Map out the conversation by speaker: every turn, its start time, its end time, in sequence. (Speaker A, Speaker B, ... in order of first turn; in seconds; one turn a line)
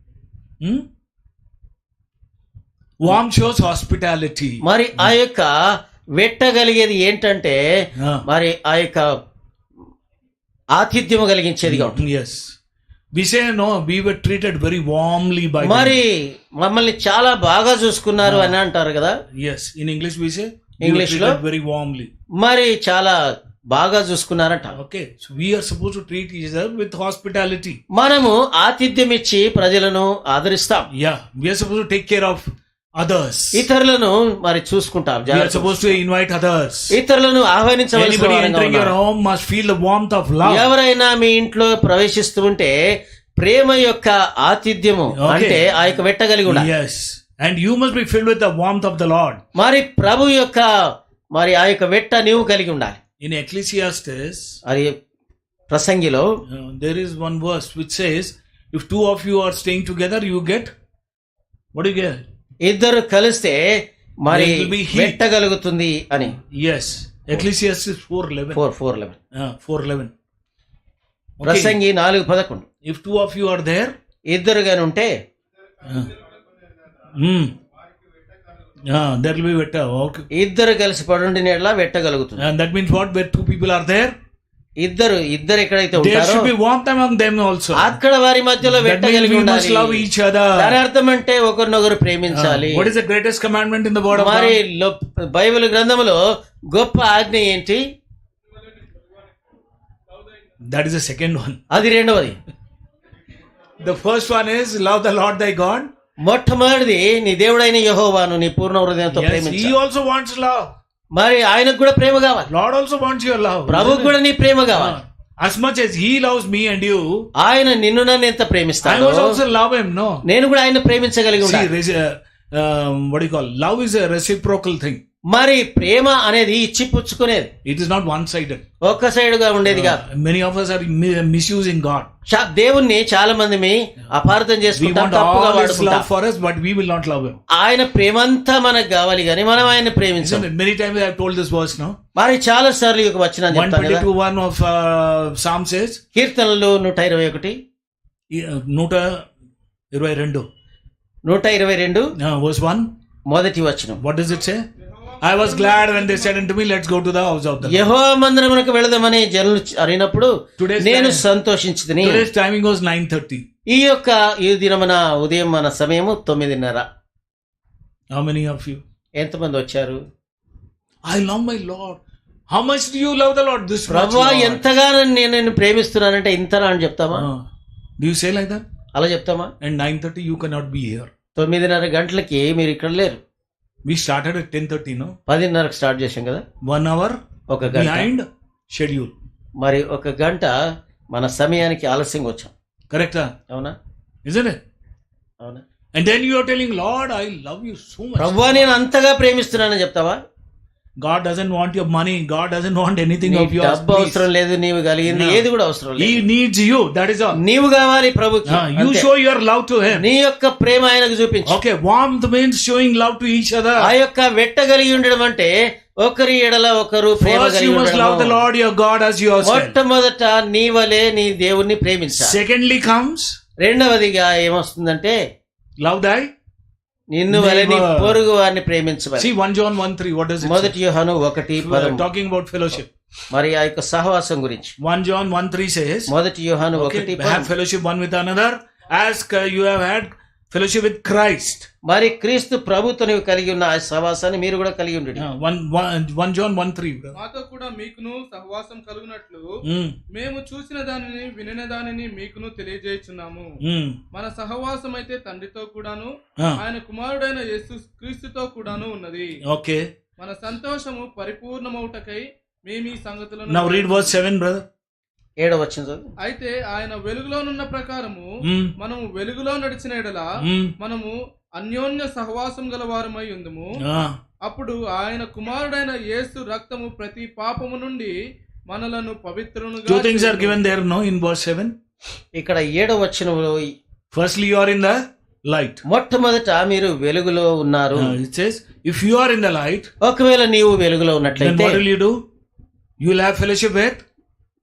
Speaker A: 3.0-5.1
Speaker B: 4.6-5.5
Speaker B: 6.2-7.6
Speaker B: 8.3-9.1
Speaker B: 10.7-12.0
Speaker A: 11.7-12.5
Speaker A: 13.1-16.0
Speaker B: 15.6-19.1
Speaker A: 18.2-18.6
Speaker A: 19.4-22.1
Speaker B: 20.8-21.4
Speaker B: 22.4-24.8
Speaker A: 24.7-27.8
Speaker B: 27.9-30.9
Speaker A: 30.9-33.7
Speaker B: 33.5-36.0
Speaker A: 35.3-36.9
Speaker B: 36.9-39.0
Speaker A: 37.9-40.7
Speaker B: 40.5-42.7
Speaker B: 43.4-46.7
Speaker A: 45.1-45.6
Speaker A: 46.5-49.4
Speaker B: 49.6-50.7
Speaker B: 51.3-53.0
Speaker A: 53.2-54.6
Speaker B: 54.7-54.9
Speaker B: 55.7-56.3
Speaker A: 56.5-60.7
Speaker A: 61.7-62.2
Speaker B: 62.7-63.7
Speaker B: 64.2-66.4
Speaker A: 64.3-65.2
Speaker A: 66.5-68.6
Speaker B: 68.5-69.2
Speaker A: 69.3-70.1
Speaker A: 71.4-71.8
Speaker B: 71.4-72.7
Speaker A: 72.9-73.9
Speaker B: 74.3-75.1
Speaker A: 75.9-76.2
Speaker A: 77.0-77.5
Speaker A: 78.9-80.3
Speaker B: 80.3-82.5
Speaker A: 82.4-84.2
Speaker B: 84.8-86.5
Speaker A: 86.0-88.0
Speaker B: 87.8-92.9
Speaker A: 88.6-90.8
Speaker A: 92.3-94.6
Speaker B: 94.1-97.8
Speaker A: 100.6-101.6
Speaker B: 101.7-102.4
Speaker A: 103.8-105.9
Speaker B: 106.2-109.7
Speaker A: 109.1-110.7
Speaker B: 111.2-112.5
Speaker A: 112.5-114.2
Speaker B: 113.7-115.0
Speaker A: 114.7-117.3
Speaker B: 117.4-119.4
Speaker A: 118.8-120.2
Speaker B: 120.3-121.7
Speaker A: 121.4-125.0
Speaker B: 125.3-127.5
Speaker A: 127.7-128.6
Speaker B: 128.8-130.0
Speaker A: 129.7-132.1
Speaker B: 132.3-136.1
Speaker A: 134.7-137.4
Speaker B: 137.5-140.4
Speaker A: 140.2-142.0
Speaker B: 142.2-144.1
Speaker A: 143.5-146.0
Speaker B: 146.2-147.6
Speaker A: 148.3-149.3
Speaker A: 149.9-150.4
Speaker B: 151.3-152.1
Speaker A: 152.2-152.9
Speaker B: 153.3-154.0
Speaker A: 154.0-154.6
Speaker C: 155.2-156.4
Speaker A: 155.2-157.9
Speaker B: 157.6-162.2
Speaker A: 160.6-161.2
Speaker A: 162.0-163.4
Speaker B: 163.7-166.8
Speaker A: 168.1-168.8
Speaker B: 169.2-170.0
Speaker A: 171.1-172.0
Speaker A: 172.5-174.7
Speaker B: 173.9-177.2
Speaker A: 177.1-177.4
Speaker A: 178.0-178.7
Speaker B: 178.9-179.5
Speaker A: 179.6-181.1
Speaker B: 181.4-183.2
Speaker A: 183.9-185.2
Speaker B: 185.3-186.4
Speaker A: 186.7-187.2
Speaker B: 187.5-188.1
Speaker A: 187.7-189.1
Speaker B: 189.6-190.6
Speaker B: 191.1-192.5
Speaker A: 192.9-193.3
Speaker B: 193.5-193.8
Speaker A: 194.2-194.6
Speaker A: 195.9-198.7
Speaker B: 198.2-200.2
Speaker A: 201.0-204.3
Speaker B: 203.3-206.2
Speaker A: 205.1-205.4
Speaker A: 206.0-207.4
Speaker B: 207.4-209.1
Speaker A: 208.5-210.1
Speaker B: 209.9-211.6
Speaker A: 211.5-213.9
Speaker B: 213.8-218.4
Speaker A: 217.2-219.8
Speaker B: 219.4-222.3
Speaker A: 222.2-223.4
Speaker B: 223.6-225.2
Speaker A: 225.8-226.3
Speaker B: 227.1-229.3
Speaker A: 227.3-228.2
Speaker A: 229.2-230.8
Speaker B: 230.4-232.0
Speaker A: 231.6-232.9
Speaker B: 233.3-234.7
Speaker A: 234.8-236.1
Speaker B: 236.1-237.5
Speaker A: 236.8-241.7
Speaker B: 241.9-245.2
Speaker A: 245.2-247.2
Speaker C: 247.2-249.5
Speaker A: 249.6-250.0
Speaker C: 250.1-253.5
Speaker A: 253.6-254.0
Speaker C: 254.1-259.3
Speaker A: 259.4-259.9
Speaker C: 260.2-264.2
Speaker A: 263.5-264.6
Speaker B: 265.4-266.1
Speaker C: 266.2-268.3
Speaker A: 268.4-268.7
Speaker C: 268.8-270.3
Speaker A: 270.4-270.7
Speaker C: 270.8-273.7
Speaker A: 273.8-274.2
Speaker C: 274.5-278.1
Speaker C: 278.7-280.6
Speaker A: 279.9-281.7
Speaker B: 282.4-283.7
Speaker A: 284.1-285.8
Speaker B: 285.9-288.1
Speaker A: 288.0-289.9
Speaker B: 290.0-291.8
Speaker A: 291.4-292.2
Speaker A: 293.0-294.0